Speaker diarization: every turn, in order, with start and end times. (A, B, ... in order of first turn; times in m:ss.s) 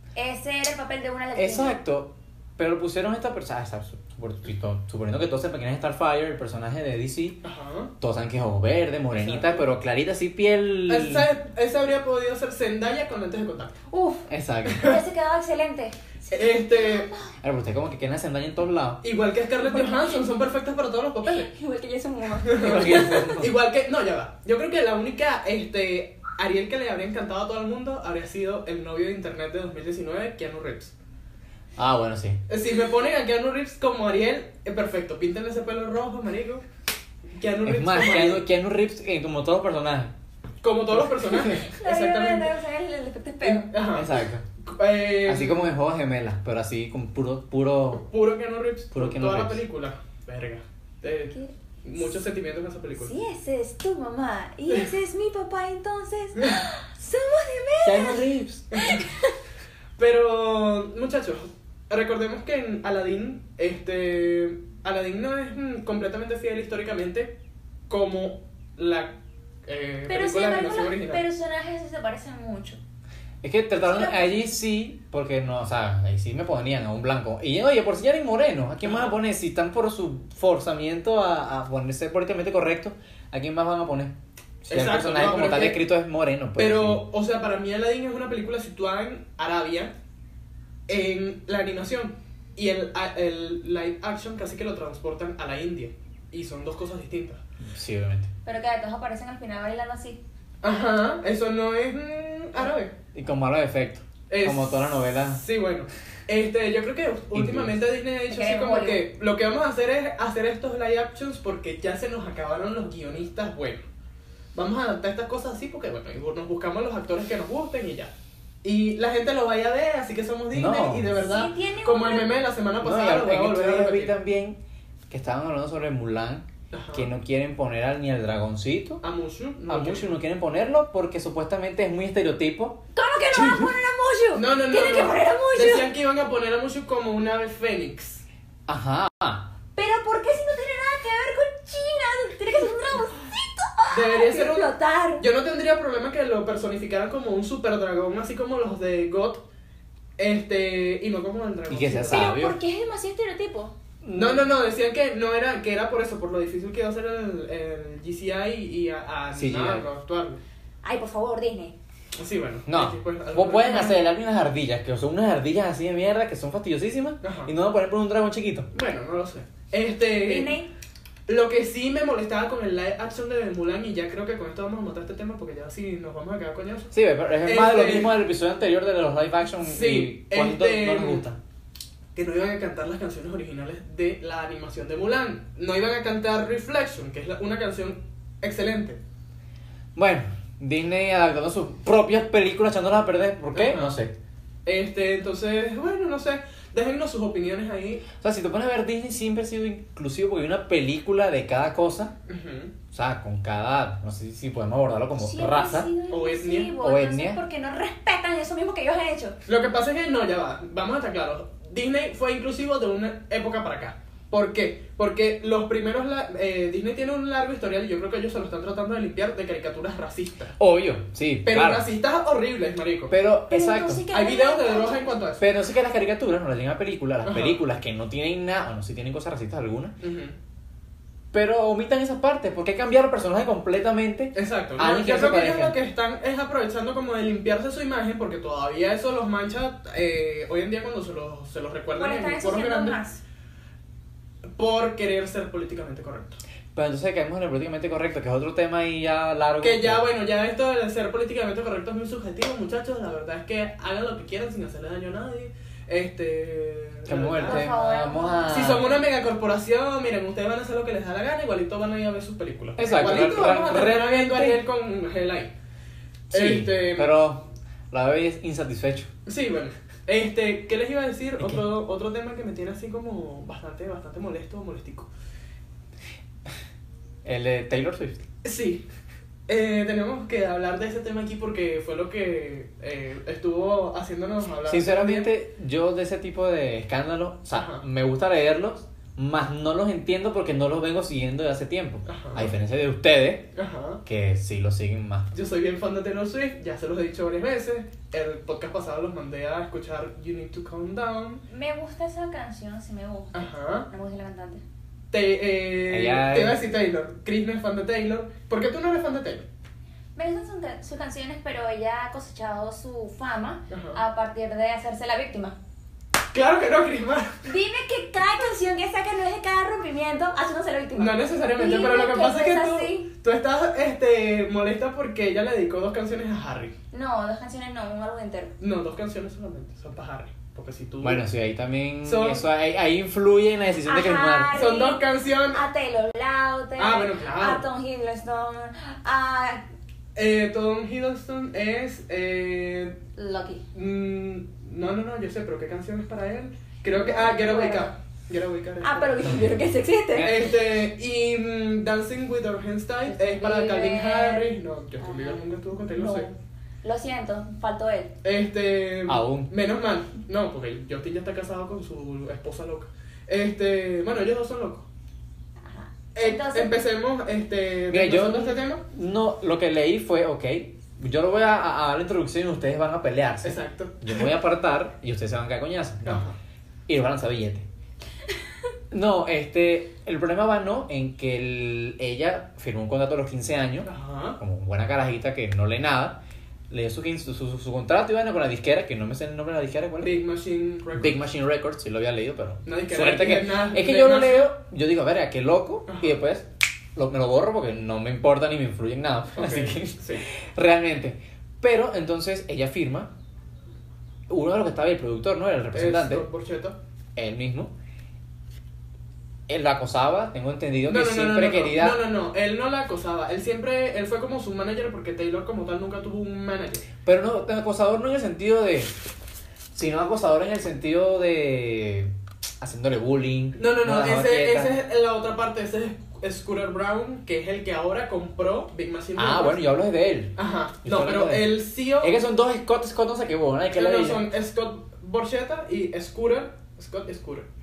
0:00.2-0:01.8 A
0:01.3-0:07.4 B
0:07.4-0:07.9 C
0:08.0-0:11.3 B
0:09.1-0:09.7 C
0:10.9-0:13.8 C
0:13.9-0:17.3 A
0:14.3-0:14.9 B
0:16.3-0:17.1 C
0:17.4-0:19.0 B
0:19.0-0:21.5 C
0:19.7-0:20.3 A
0:21.3-0:23.3 A
0:22.4-0:30.9 C
0:22.5-0:23.5 B
0:31.8-0:32.4 B
0:32.5-0:36.6 C
0:37.4-0:38.4 C
0:37.6-0:40.1 B
0:40.6-0:42.5 C
0:41.0-0:41.6 B
0:41.3-0:43.7 A
0:43.4-0:45.7 C
0:43.9-0:44.4 B
0:45.2-0:48.0 B
0:48.0-0:53.1 C
0:48.9-0:49.6 B
0:51.3-0:52.2 A
0:53.0-0:58.2 A
0:57.8-0:58.7 B
0:58.7-0:59.0 C
0:58.8-0:59.3 A
1:00.0-1:07.3 C
1:07.9-1:11.2 C
1:10.1-1:12.8 A
1:13.4-1:27.0 B
1:13.8-1:14.4 A
1:24.7-1:25.8 C
1:26.6-1:29.9 C
1:30.9-1:37.4 C
1:37.6-1:38.3 B
1:38.4-1:40.2 A
1:40.6-1:42.9 C
1:43.1-1:45.4 B
1:44.3-1:53.8 C
1:47.3-1:47.8 B
1:48.3-1:49.1 A
1:54.5-1:58.1 C
1:58.6-2:04.1 C
2:00.5-2:01.1 B
2:01.2-2:02.4 A
2:02.8-2:04.6 B
2:05.1-2:09.0 B
2:06.7-2:07.1 C
2:09.0-2:10.1 C
2:09.7-2:12.8 B
2:12.9-2:15.9 A
2:13.3-2:13.7 B
2:14.3-2:18.2 C
2:18.7-2:19.5 B
2:19.8-2:25.2 A
2:23.9-2:29.4 C
2:30.2-2:32.3 C
2:31.7-2:32.6 B
2:32.1-2:33.7 A
2:34.0-2:34.5 B
2:34.1-2:40.4 C
2:39.3-2:39.8 B
2:40.8-2:41.8 A
2:42.2-2:44.0 C
2:42.7-2:48.7 B
2:47.2-2:47.5 C
2:48.7-2:50.5 C
2:50.2-2:50.7 A
2:51.3-2:56.9 C
2:56.9-3:01.4 B
2:57.4-2:58.2 C
2:59.6-3:01.2 C
3:02.1-3:09.0 C
3:09.9-3:14.1 B
3:13.5-3:14.0 C
3:14.6-3:18.0 C
3:18.1-3:22.1 B
3:22.3-3:22.7 C
3:22.9-3:25.9 B
3:25.2-3:29.4 A
3:26.1-3:26.8 C
3:26.8-3:27.4 B
3:29.5-3:40.6 C
3:40.6-3:41.9 B
3:41.4-3:43.1 C
3:43.1-3:44.0 B
3:43.5-3:45.2 A
3:44.1-3:45.4 C
3:45.4-3:50.0 B
3:47.2-3:47.6 C
3:50.0-3:50.4 C
3:51.3-3:55.8 B
3:54.3-4:03.0 C
4:02.0-4:03.2 A
4:04.5-4:06.4 C
4:06.7-4:10.0 B
4:09.6-4:17.8 C
4:17.1-4:18.9 B
4:17.4-4:18.9 A
4:18.5-4:25.5 C
4:22.8-4:24.6 B
4:26.3-4:27.1 C
4:26.3-4:29.1 B
4:29.2-4:35.1 C
4:37.2-4:38.2 B
4:38.4-4:38.8 C
4:39.5-4:45.3 C
4:44.7-4:53.5 B
4:47.5-4:47.8 C
4:52.1-4:52.5 C
4:53.5-4:54.0 C
4:54.0-4:55.3 B
4:55.3-5:01.4 C
5:01.5-5:04.6 A
5:03.3-5:03.9 C
5:05.1-5:09.4 C
5:05.9-5:06.6 B
5:10.2-5:15.6 A
5:13.7-5:14.0 C
5:16.3-5:17.4 C
5:17.4-5:23.1 A
5:21.0-5:26.7 C
5:26.9-5:28.5 A
5:28.6-5:31.2 C
5:31.0-5:34.5 B
5:32.0-5:32.4 C
5:33.8-5:39.6 A
5:34.5-5:35.6 C
5:36.8-5:37.6 C
5:40.1-5:43.0 C
5:43.2-5:43.6 A
5:43.7-5:49.4 C
5:46.9-5:47.9 A
5:48.8-5:50.5 A
5:50.1-5:50.4 B
5:50.2-5:56.3 C
5:53.0-5:58.1 A
5:58.2-6:04.9 C
5:59.1-5:59.5 B
6:05.6-6:06.8 A
6:06.1-6:08.8 C
6:07.9-6:16.2 B
6:13.4-6:14.3 C
6:16.0-6:16.4 C
6:16.9-6:17.7 B
6:18.9-6:30.1 B
6:23.8-6:24.4 C
6:30.0-6:31.2 C
6:30.9-6:43.1 B
6:32.6-6:34.5 C
6:35.9-6:36.2 C
6:39.3-6:40.2 C
6:44.3-6:46.2 B
6:45.7-6:46.8 C
6:47.2-6:47.7 B
6:49.5-6:52.0 B
6:50.9-6:56.9 C
6:57.0-6:58.9 B
6:59.7-7:04.8 B
7:03.6-7:09.6 C
7:09.2-7:14.2 B
7:10.4-7:12.1 C
7:13.7-7:17.5 C